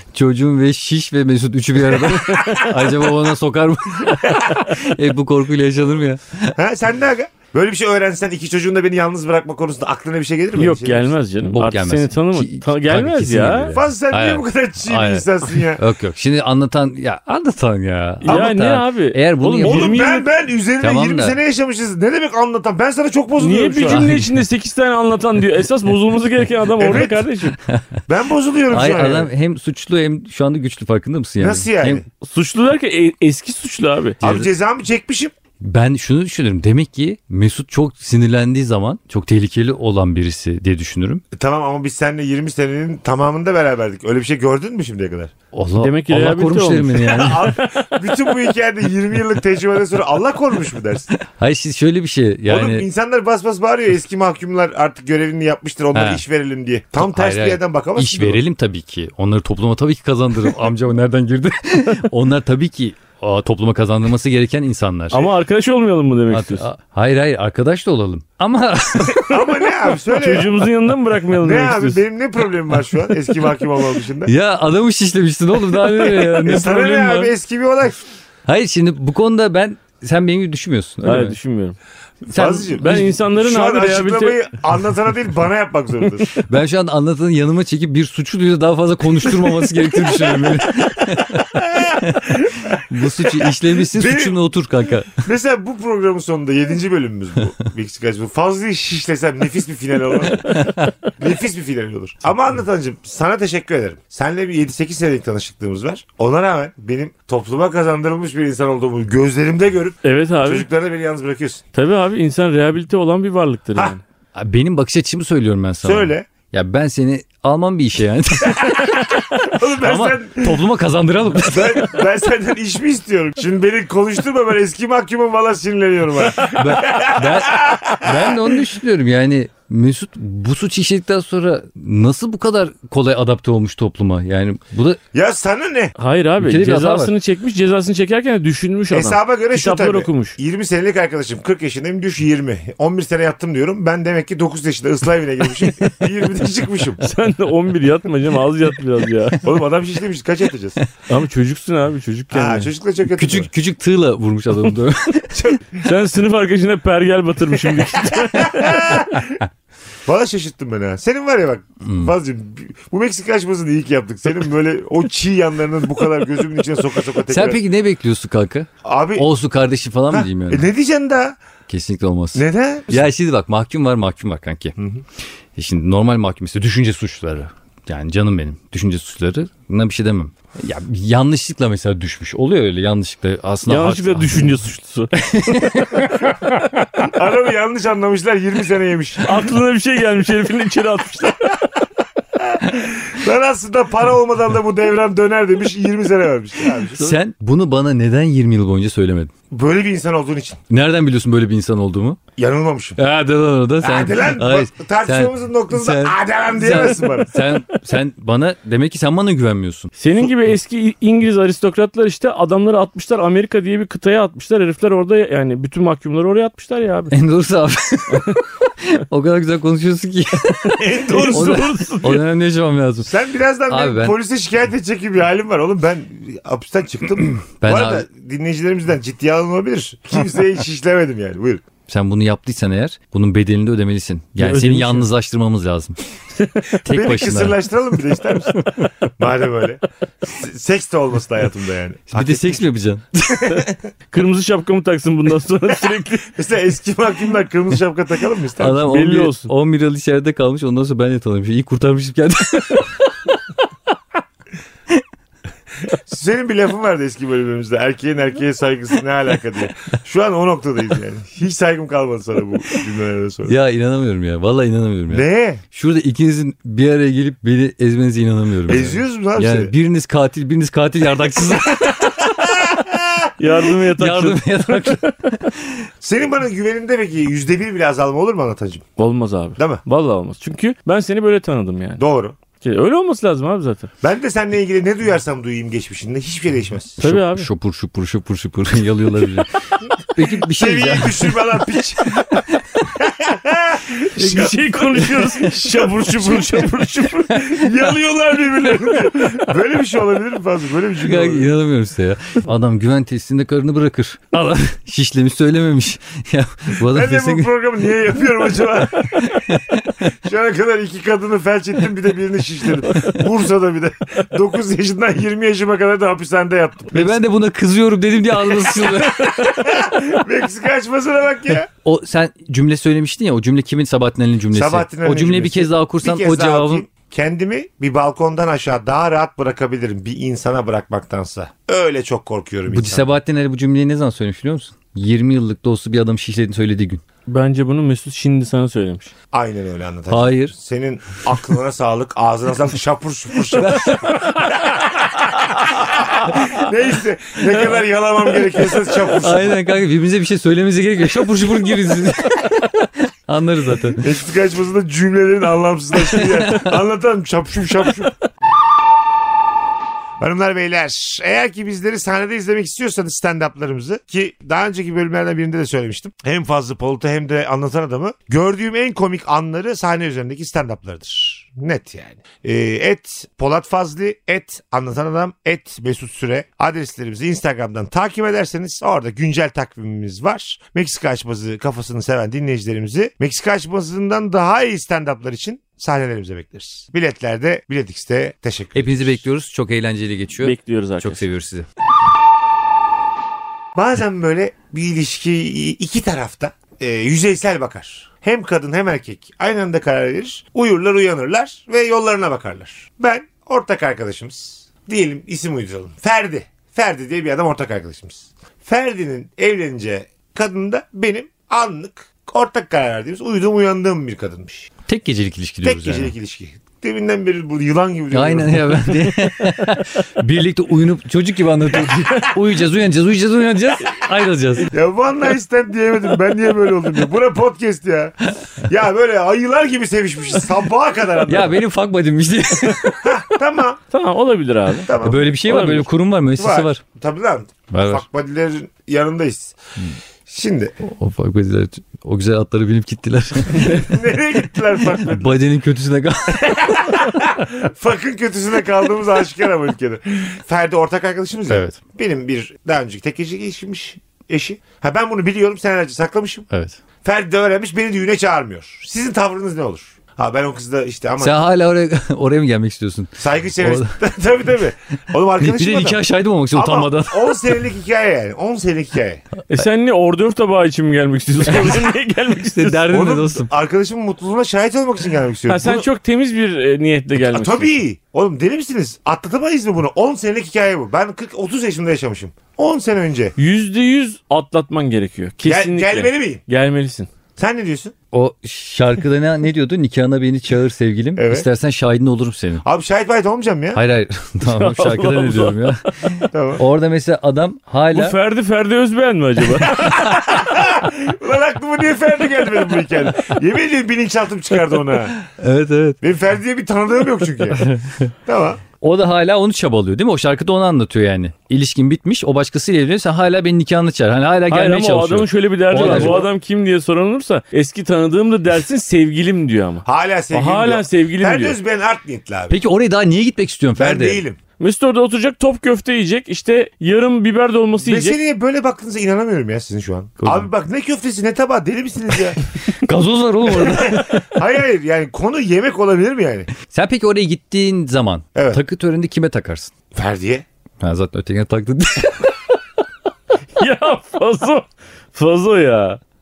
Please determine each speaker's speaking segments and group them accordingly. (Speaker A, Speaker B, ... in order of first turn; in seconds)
Speaker A: 0.1-6.5, 11.4-20.0, 20.8-21.4, 23.9-24.4, 28.7-32.0, 34.2-34.5, 35.6-41.2, 45.5-47.6, 51.2-52.9, 55.9-56.2, 57.0-65.3, 66.3-69.4, 74.2-77.3, 78.5-81.3, 82.3-83.1, 86.4-92.3, 92.9-95.2, 100.4-100.9, 114.3-122.0, 126.5-135.0, 136.4-137.1, 153.1-155.6, 161.8-162.1, 167.3-170.7, 171.7-174.7, 175.6-184.5, 185.2-186.1, 196.9-199.3, 200.7-202.2, 203.0-209.9, 217.1-223.1, 223.7-224.2, 227.6-228.1, 231.9-236.0, 236.8-237.6, 242.1-243.6, 248.6-252.9, 263.4-272.6, 273.9-275.9, 287.0-292.8, 294.2-295.6, 301.0-307.5, 309.1-310.0, 316.9-319.6, 321.8-326.9, 332.7-337.0, 340.1-340.5, 343.5-344.4, 349.1-354.1, 356.0-356.7, 388.7-391.6, 414.9-416.1, 418.1-424.7, 431.2-433.1, 435.0-436.8, 437.7-438.0, 440.8-443.9, 445.0-447.0, 451.5-451.8, 456.5-456.8, 461.2-463.9, 465.4-467.4, 472.5-473.5, 488.1-492.6, 493.7-498.1, 499.8-500.1, 505.3-506.0, 507.5-508.1, 508.8-516.3, 522.5-524.2, 530.2-530.5, 532.7-534.2, 536.7-539.7, 540.8-542.4
Speaker B: 2.3-2.7, 10.5-13.7, 18.2-20.3, 23.4-27.6, 32.2-34.2, 45.8-47.9, 65.1-66.7, 70.0-72.0, 81.0-81.8, 82.8-84.4, 110.0-110.7, 111.7-114.0, 136.0-140.4, 147.0-149.4, 151.1-152.7, 155.8-159.0, 183.7-186.1, 189.2-191.5, 210.0-217.1, 218.1-218.4, 220.7-222.2, 234.4-235.1, 244.1-246.3, 248.9-249.5, 273.4-275.2, 279.0-282.0, 282.6-283.9, 287.0-287.5, 294.1-297.6, 337.3-339.1, 345.6-346.4, 390.4-391.2, 433.9-434.9, 435.4-435.9, 469.5-472.9, 475.5-477.7, 483.4-487.1, 494.4-495.7, 497.9-500.0, 514.5-521.6, 524.6-528.2, 543.6-546.0
Speaker C: 4.2-4.5, 6.5-11.1, 13.7-15.8, 19.6-24.1, 26.8-27.2, 28.1-29.3, 31.4-32.0, 34.2-35.3, 41.3-45.3, 47.0-51.1, 52.5-58.4, 69.2-70.6, 71.4-74.3, 75.9-78.0, 82.3-86.4, 91.4-94.4, 95.2-111.6, 115.8-116.3, 118.5-120.6, 121.4-128.6, 135.1-135.9, 138.9-147.0, 149.4-150.8, 152.3-153.5, 155.3-155.8, 158.2-159.4, 160.1-167.6, 168.8-169.3, 170.1-171.4, 172.3-173.1, 174.8-175.0, 187.0-189.3, 192.5-197.1, 199.5-200.6, 202.3-203.0, 203.8-207.4, 220.8-221.7, 223.1-231.6, 236.8-242.6, 246.3-248.8, 255.9-263.6, 265.1-265.6, 268.7-269.7, 272.2-273.3, 276.0-278.9, 279.6-279.8, 282.0-282.3, 284.0-287.0, 290.4-295.1, 297.3-301.5, 306.8-317.2, 318.6-321.7, 324.5-333.1, 339.3-349.6, 354.0-358.1, 360.2-389.2, 393.7-414.7, 415.6-419.1, 424.7-431.6, 433.0-433.8, 434.9-435.4, 436.4-439.6, 440.3-440.7, 443.5-445.4, 446.3-456.5, 457.0-461.4, 463.2-469.2, 472.9-475.9, 477.3-483.4, 485.4-486.4, 487.4-487.9, 491.2-491.4, 492.6-493.8, 496.3-496.6, 499.7-505.2, 506.0-507.7, 508.2-508.6, 515.8-516.2, 519.9-522.6, 523.8-524.4, 527.8-532.4, 533.5-536.5, 538.3-538.6, 539.9-540.4